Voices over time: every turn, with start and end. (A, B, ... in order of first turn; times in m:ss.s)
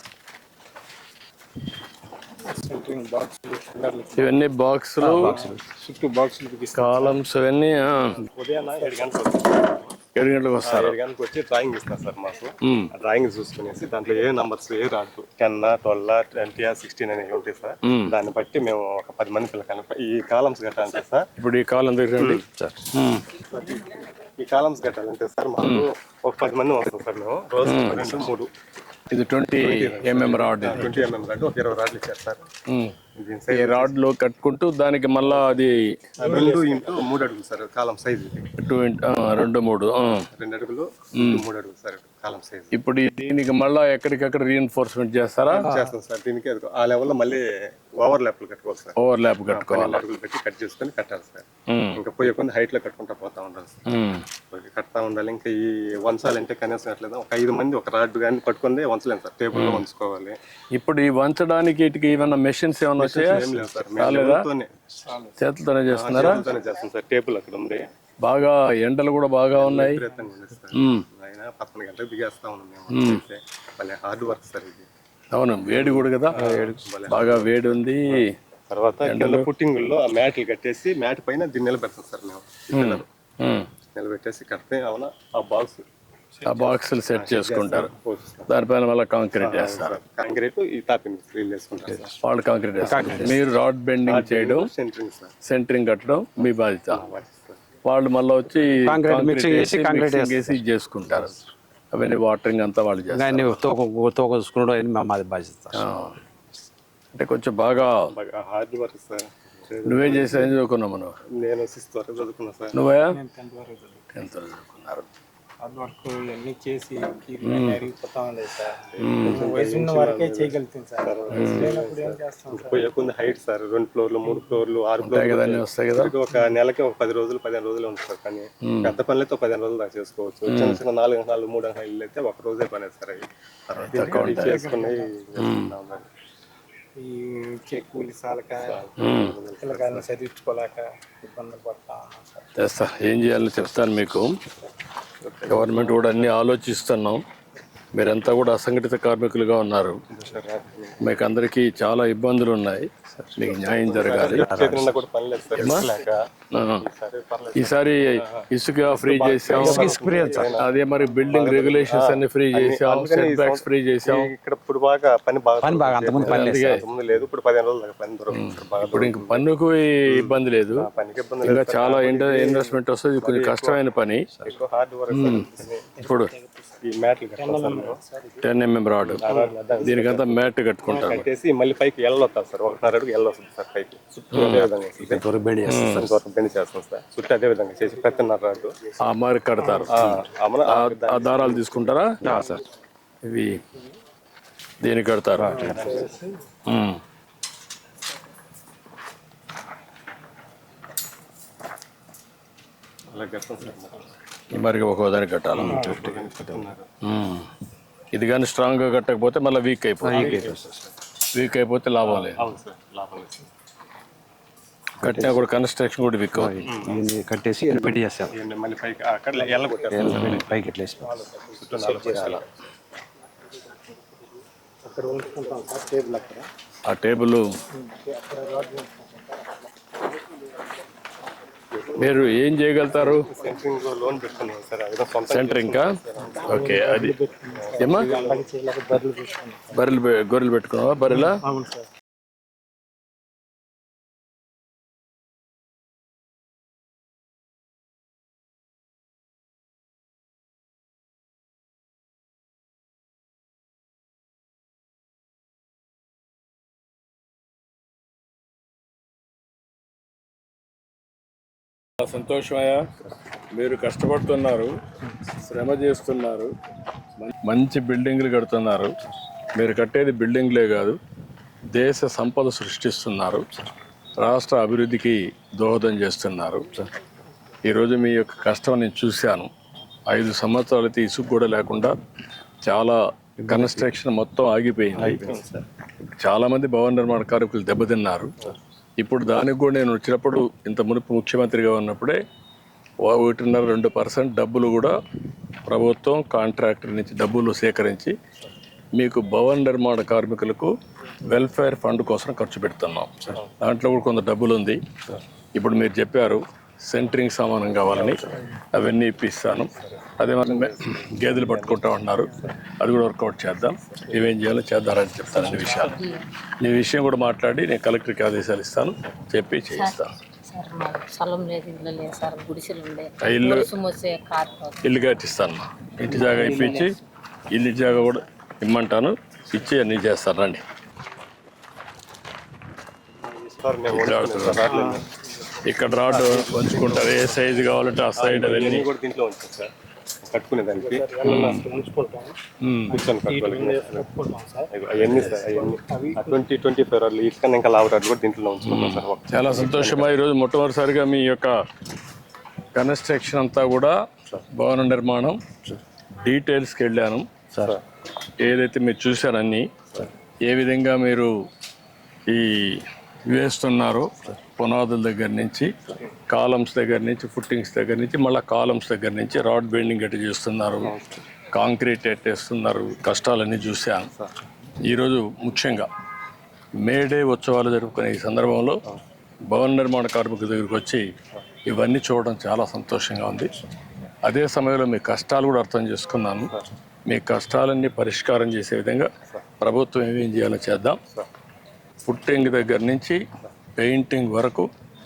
0:02.5-0:04.4 A
0:04.1-0:05.4 B
0:05.0-0:05.7 C
0:05.1-0:07.2 A
0:06.7-0:08.2 B
0:08.2-0:09.9 D
0:10.1-0:10.9 B
0:10.6-0:21.2 D
0:12.6-0:12.9 B
0:17.8-0:18.1 B
0:21.4-0:23.2 B
0:22.2-0:22.4 D
0:22.5-0:22.9 C
0:23.5-0:28.5 D
0:25.6-0:25.8 B
0:27.6-0:28.3 B
0:29.1-0:31.0 B
0:29.6-0:32.4 D
0:32.7-0:33.0 B
0:33.2-0:33.9 D
0:33.5-0:35.8 B
0:36.2-0:38.5 D
0:36.2-0:37.1 A
0:38.6-0:40.2 B
0:40.1-0:42.7 D
0:41.2-0:41.4 B
0:42.7-0:45.7 B
0:45.5-0:48.9 D
0:45.6-0:45.9 C
0:49.0-0:50.0 B
0:49.5-0:53.8 D
0:51.7-0:52.0 B
0:53.9-0:54.2 B
0:54.5-1:00.4 D
0:59.5-0:59.8 B
1:00.7-1:04.4 B
1:03.0-1:05.3 D
1:05.4-1:06.4 B
1:05.9-1:07.9 D
1:08.2-1:10.0 B
1:09.6-1:14.9 D
1:10.7-1:11.0 B
1:12.9-1:13.2 B
1:15.3-1:16.4 B
1:15.7-1:23.0 D
1:16.4-1:17.0 C
1:17.1-1:18.3 B
1:19.0-1:19.5 B
1:22.7-1:23.7 B
1:23.9-1:25.8 D
1:26.4-1:27.9 B
1:27.1-1:28.5 D
1:28.5-1:30.0 B
1:29.4-1:32.1 D
1:32.2-1:34.7 B
1:32.8-1:33.3 C
1:34.1-1:35.3 D
1:35.4-1:37.0 B
1:36.9-1:37.6 D
1:37.8-1:41.4 B
1:38.9-1:40.6 C
1:41.9-1:43.7 B
1:43.1-1:45.9 C
1:45.7-1:46.2 B
1:47.1-1:48.1 B
1:48.1-1:50.5 D
1:49.8-1:51.2 B
1:51.4-1:52.7 D
1:52.7-1:53.2 B
1:53.1-1:54.0 A
1:54.1-1:55.1 B
1:55.6-2:02.9 A
1:57.4-1:57.9 B
1:58.9-2:16.1 D
1:59.0-1:59.5 B
2:01.3-2:01.8 B
2:05.0-2:06.1 B
2:08.6-2:08.9 B
2:10.4-2:10.8 B
2:13.9-2:14.6 B
2:13.9-2:15.1 A
2:15.4-2:15.7 B
2:17.0-2:18.9 A
2:17.8-2:20.1 D
2:19.0-2:19.3 B
2:19.6-2:22.4 A
2:22.6-2:24.3 B
2:25.2-2:26.1 D
2:25.5-2:27.2 B
2:27.9-2:30.0 B
2:30.1-2:31.1 D
2:31.0-2:34.6 B
2:33.1-2:33.4 C
2:33.5-2:36.2 D
2:34.2-2:35.0 C
2:35.6-2:35.9 B
2:36.5-2:36.8 B
2:36.8-2:49.4 D
2:37.5-2:44.3 B
2:39.6-2:40.6 C
2:45.6-2:46.9 C
2:46.2-2:46.8 B
2:48.3-2:50.9 B
2:50.1-2:53.8 D
2:51.4-2:54.3 B
2:54.4-2:56.0 D
2:55.1-2:55.5 B
2:56.0-2:56.5 A
2:56.0-2:56.3 B
2:56.8-2:58.0 D
2:57.4-2:58.4 A
2:58.4-2:59.2 B
2:59.2-3:08.8 D
2:59.8-3:01.2 B
3:00.9-3:01.2 A
3:04.3-3:04.7 B
3:04.6-3:06.2 C
3:05.6-3:06.1 B
3:09.0-3:12.2 B
3:09.9-3:11.9 D
3:12.2-3:12.6 C
3:13.2-3:13.6 B
3:14.8-3:15.7 B
3:15.4-3:15.8 C
3:15.5-3:16.2 D
3:15.7-3:16.3 A
3:16.7-3:17.0 B
3:23.1-3:24.1 D
3:24.5-3:26.0 B
3:25.5-3:26.9 D
3:25.8-3:26.6 C
3:27.0-3:27.5 B
3:28.1-3:30.5 B
3:30.0-3:30.8 C
3:30.1-3:30.6 D
3:31.3-3:32.4 B
3:32.0-3:33.5 D
3:35.0-3:35.4 C
3:35.0-3:36.6 B
3:36.3-3:38.3 C
3:36.6-3:37.0 D
3:38.3-3:40.5 D
3:39.9-3:41.2 C
3:41.0-3:42.4 A
3:41.5-3:42.4 D
3:44.9-3:46.5 A
3:46.8-3:47.5 B
3:47.9-3:49.2 A
3:52.0-3:53.2 B
3:53.0-3:56.8 D
3:55.3-3:55.9 B
3:56.4-3:57.2 B
3:56.5-3:59.7 A
3:57.5-3:58.5 D
3:57.8-3:58.1 B
3:59.7-4:01.4 B
4:01.4-4:01.8 A
4:22.0-4:22.9 B
4:23.5-4:24.7 B
4:25.3-4:26.5 B
4:27.2-4:29.0 B
4:29.5-4:31.0 B
4:31.7-4:33.4 B
4:34.2-4:36.7 B
4:37.6-4:39.5 B
4:40.1-4:42.0 B
4:42.6-4:45.4 B
4:43.4-4:43.9 C
4:45.0-4:45.3 D
4:45.0-4:45.6 C
4:46.2-4:48.3 B
4:49.0-4:52.2 B
4:53.0-4:54.9 B
4:55.6-4:58.1 B
4:59.0-5:00.7 B
5:01.2-5:04.8 B
5:05.5-5:16.0 B
5:07.9-5:08.3 D
5:09.5-5:12.7 D
5:13.8-5:14.2 D
5:15.5-5:15.8 D
5:16.0-5:16.2 E
5:16.6-5:20.1 B
5:20.5-5:25.0 E
5:23.2-5:23.7 B
5:24.8-5:26.9 B
5:27.5-5:30.6 B
5:33.4-5:35.0 D
5:33.9-5:34.7 B
5:34.6-5:35.0 A
5:35.6-5:38.8 B
5:36.1-5:37.0 A
5:36.2-5:37.2 D
5:38.2-5:39.7 D
5:40.2-5:41.1 D
5:40.7-5:42.3 A
5:41.2-5:41.7 B
5:42.6-5:43.0 B
5:42.9-5:44.1 D
5:42.9-5:46.4 A
5:44.7-5:50.1 D
5:48.6-5:51.5 B
5:52.7-5:53.9 B
5:54.5-5:55.4 B
5:56.2-5:57.2 B
5:58.4-5:59.7 B
6:00.4-6:01.3 B
6:02.3-6:05.7 B
6:06.3-6:10.9 B
6:10.8-6:11.2 D
6:11.5-6:14.1 B
6:14.9-6:15.9 B
6:16.8-6:18.8 B
6:19.5-6:21.0 B
6:21.6-6:23.5 B
6:24.2-6:26.5 B
6:27.1-6:31.0 B
6:32.0-6:33.2 B
6:33.8-6:34.7 B